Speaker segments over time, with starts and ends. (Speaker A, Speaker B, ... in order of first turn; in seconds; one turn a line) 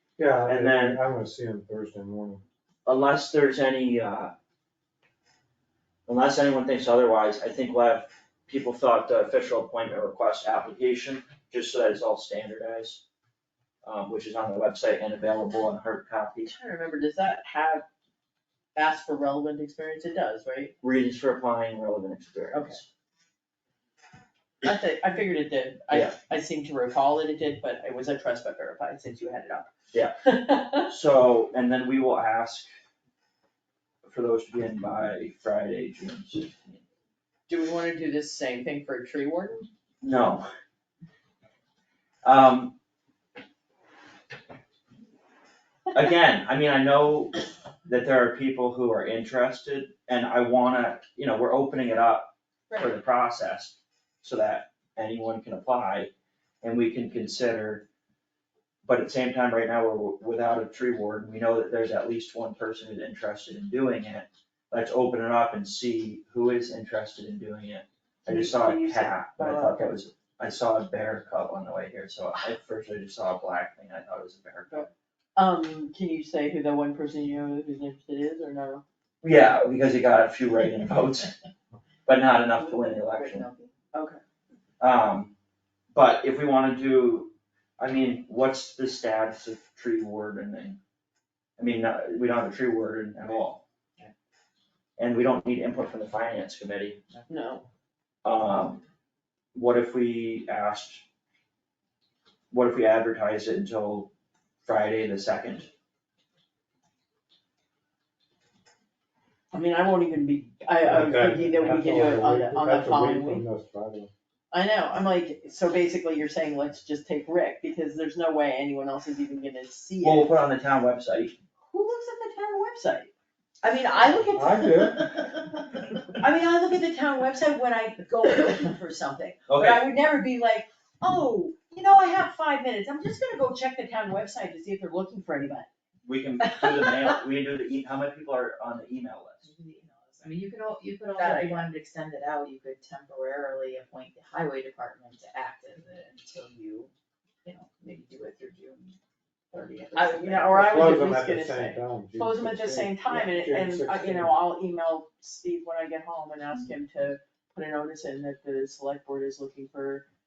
Speaker A: 0.2-2.4
Speaker B: 0.4-1.0
Speaker B: 2.9-4.3
Speaker B: 6.1-13.0
Speaker B: 13.8-16.5
Speaker C: 16.4-17.9
Speaker C: 18.7-20.7
Speaker B: 20.8-22.9
Speaker C: 22.5-22.8
Speaker C: 24.6-29.7
Speaker B: 25.9-26.2
Speaker C: 30.2-30.9
Speaker B: 30.8-32.7
Speaker B: 34.0-36.8
Speaker C: 37.5-39.7
Speaker B: 40.0-40.5
Speaker B: 42.2-42.8
Speaker B: 45.9-47.3
Speaker B: 47.8-57.9
Speaker B: 58.8-74.9
Speaker C: 68.3-69.8
Speaker C: 74.7-78.8
Speaker B: 79.2-81.3
Speaker B: 82.0-83.5
Speaker D: 82.6-83.7
Speaker C: 83.9-84.2
Speaker B: 84.8-85.3
Speaker B: 85.9-90.8
Speaker B: 91.6-93.6
Speaker B: 95.0-97.0
Speaker C: 97.3-97.7
Speaker B: 98.2-98.8
Speaker B: 99.5-101.0
Speaker B: 102.5-104.1
Speaker B: 104.6-105.7
Speaker C: 109.5-113.4
Speaker A: 110.8-114.1
Speaker C: 114.5-120.4
Speaker B: 120.0-121.4
Speaker C: 121.7-123.1
Speaker C: 123.6-135.7
Speaker A: 124.3-125.0
Speaker B: 129.5-129.8
Speaker B: 136.0-139.5
Speaker D: 139.4-146.9
Speaker C: 141.2-141.7
Speaker D: 147.4-149.0
Speaker D: 149.5-151.1
Speaker C: 149.9-160.0
Speaker A: 150.5-154.4